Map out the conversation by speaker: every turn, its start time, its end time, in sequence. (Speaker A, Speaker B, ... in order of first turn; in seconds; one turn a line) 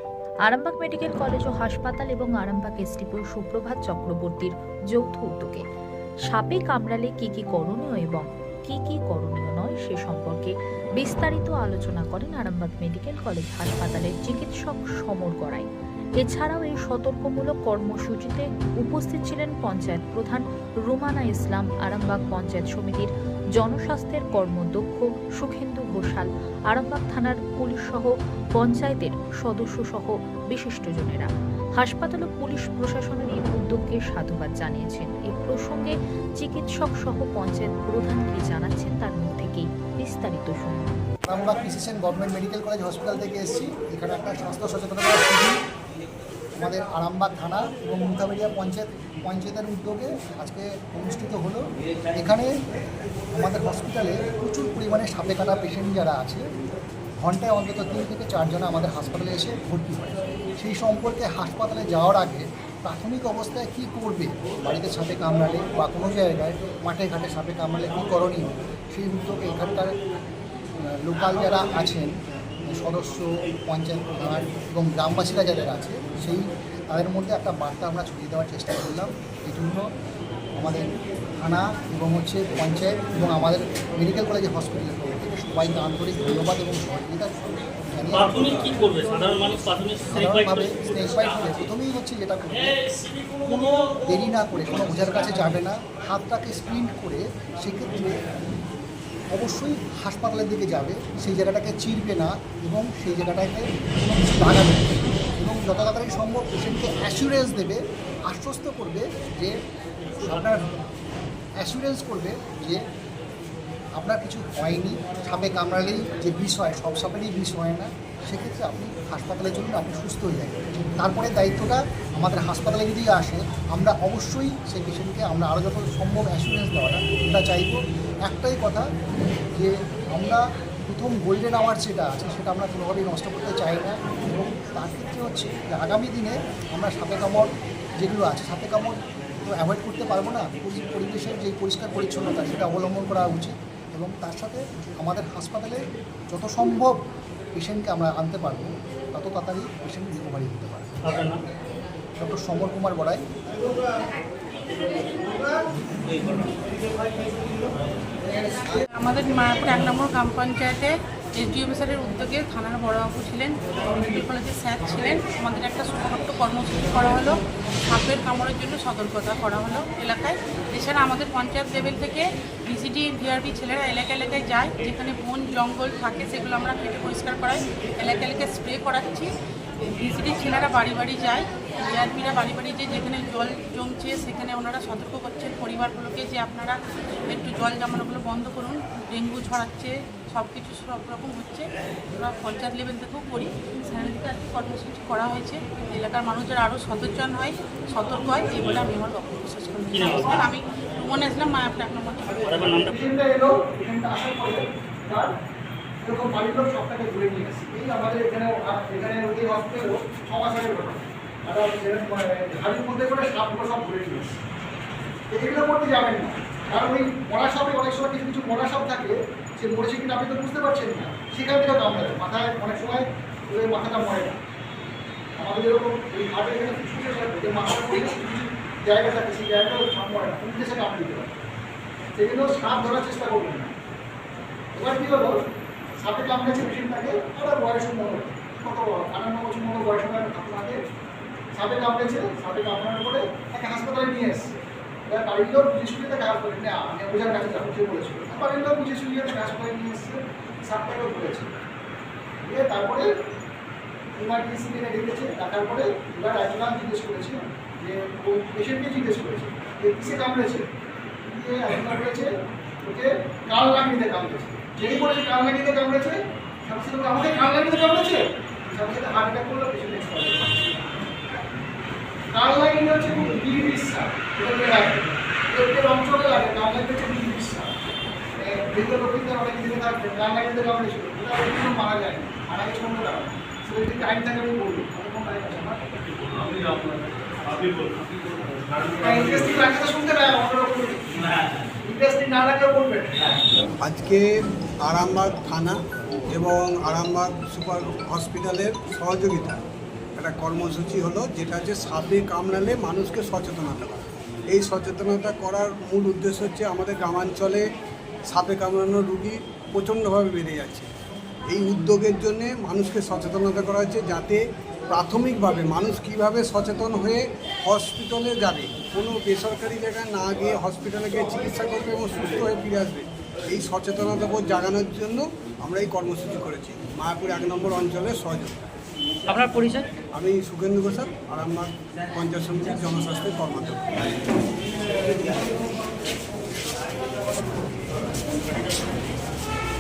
Speaker A: 0.5-5.6
Speaker A: 6.3-15.7
Speaker A: 16.2-40.9
Speaker B: 41.3-45.5
Speaker B: 46.6-52.5
Speaker B: 53.3-56.5
Speaker B: 57.2-70.0
Speaker B: 70.8-72.1
Speaker B: 72.7-79.8
Speaker B: 80.6-88.6
Speaker C: 88.2-90.7
Speaker B: 90.1-92.8
Speaker B: 93.5-98.2
Speaker B: 99.3-109.5
Speaker B: 110.2-110.7
Speaker B: 111.6-112.8
Speaker B: 114.0-128.9
Speaker B: 129.6-137.5
Speaker B: 138.0-147.0
Speaker B: 147.6-151.3
Speaker C: 151.1-151.4
Speaker B: 152.2-153.2
Speaker D: 158.7-179.3
Speaker D: 179.9-202.9
Speaker C: 199.9-200.3
Speaker B: 202.9-205.3
Speaker B: 206.0-214.3
Speaker B: 215.3-224.4
Speaker B: 225.4-231.4
Speaker B: 232.2-233.7
Speaker B: 234.8-235.4
Speaker B: 236.0-240.8
Speaker B: 241.6-251.6
Speaker B: 252.4-253.1
Speaker B: 254.2-260.7
Speaker B: 261.2-270.9
Speaker B: 272.3-277.7
Speaker B: 278.4-285.9
Speaker C: 286.1-289.2
Speaker B: 289.0-291.1
Speaker B: 291.8-293.4
Speaker E: 293.8-294.3
Speaker E: 294.8-299.6
Speaker E: 300.2-307.6
Speaker E: 308.3-310.9
Speaker E: 311.5-328.7
Speaker C: 329.3-329.9
Speaker E: 330.1-334.0